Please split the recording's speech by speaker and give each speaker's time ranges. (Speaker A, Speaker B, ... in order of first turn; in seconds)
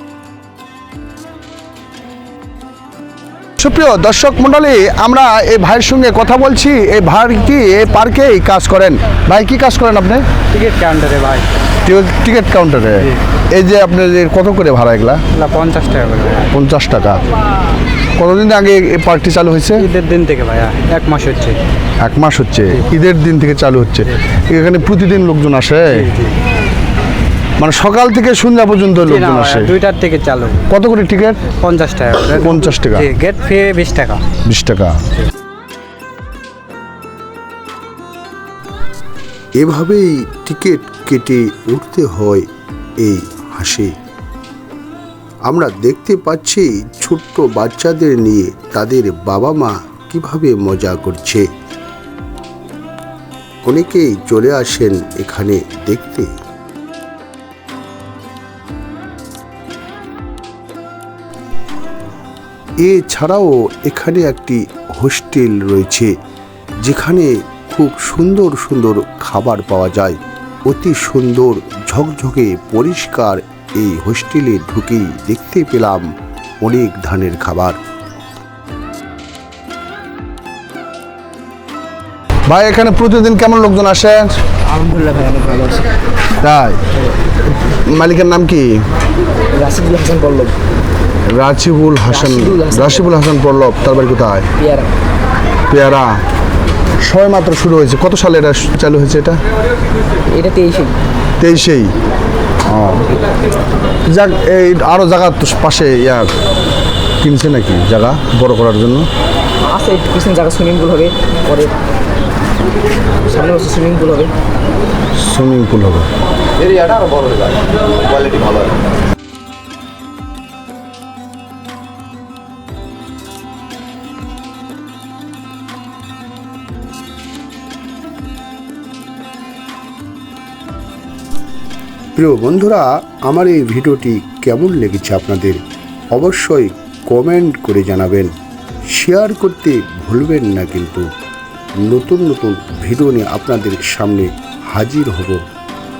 Speaker A: 3.6-10.2, 11.8-15.2, 16.5-17.2, 18.2-19.9, 22.0-26.1, 27.6-29.7, 30.7-31.5, 32.4-33.1, 34.4-35.0, 82.5-84.3, 86.4-86.8, 87.6-88.8, 91.2-94.5, 95.7-96.2, 97.0-99.4, 101.4-101.9, 102.7-103.1, 104.1-106.3, 107.2-109.1, 115.1-116.1
Speaker B: 10.5-11.6, 15.3-16.5, 19.8-21.6, 25.9-26.3, 29.0-30.6, 31.5-34.2
Speaker C: 39.6-42.5, 43.0-43.9, 45.5-51.5, 53.6-56.3, 62.8-66.1, 66.8-76.1, 76.6-77.8, 132.1-135.6, 136.1-138.3, 138.9-141.0, 141.8-145.4
Speaker D: 84.6-85.9, 89.5-90.5, 92.1-93.1, 94.6-94.9, 100.3-101.0, 109.7-111.7, 113.2-114.3